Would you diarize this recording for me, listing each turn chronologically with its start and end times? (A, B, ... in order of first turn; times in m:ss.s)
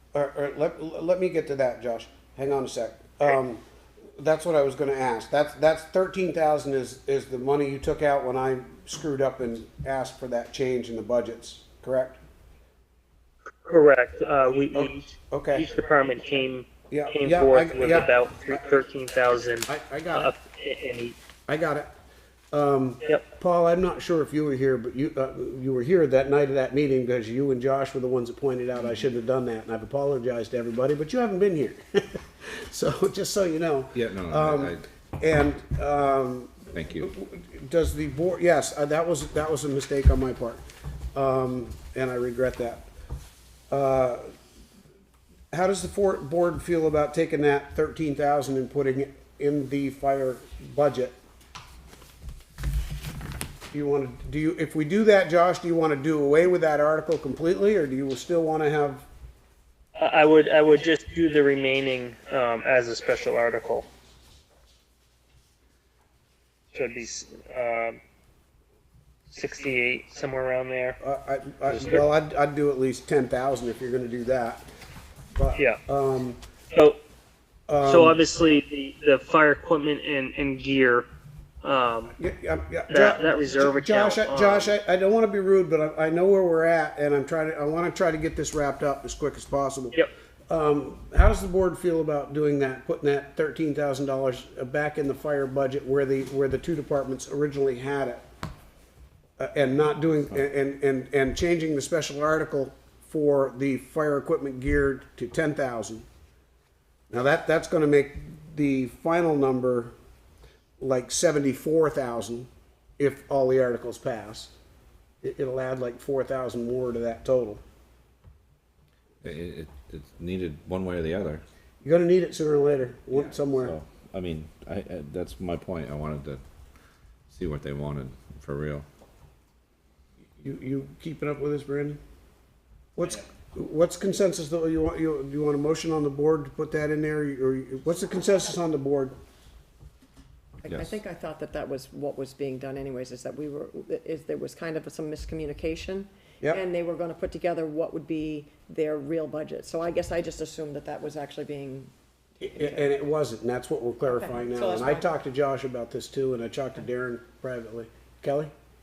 0:00.1-0:03.6 A
0:04.2-0:12.2 A
0:13.6-0:21.2 B
0:14.7-0:15.6 A
0:16.9-0:18.1 A
0:19.6-0:20.3 A
0:21.5-0:21.9 A
0:22.5-0:42.9 A
0:33.9-0:34.8 C
0:36.7-0:37.1 C
0:43.7-0:44.3 A
0:45.5-0:51.2 A
0:53.7-0:59.1 A
1:00.0-1:03.9 B
1:06.7-1:08.0 B
1:09.3-1:11.0 B
1:11.0-1:14.7 A
1:11.7-1:12.0 B
1:15.3-1:16.4 A
1:16.7-1:17.0 B
1:17.7-1:18.2 A
1:17.8-1:21.1 B
1:21.6-1:22.1 B
1:22.2-1:38.2 A
1:22.9-1:24.7 B
1:39.4-1:46.0 A
1:47.1-1:49.9 A
1:50.8-1:54.5 A
1:55.2-1:57.6 A
1:59.2-2:01.4 C
2:01.8-2:03.7 A
2:03.1-2:06.4 C
2:07.3-2:08.8 C
2:10.4-2:12.0 A
2:13.0-2:19.1 A
2:20.6-2:32.9 D
2:20.7-2:21.0 C
2:32.4-2:38.5 A
2:34.0-2:35.1 D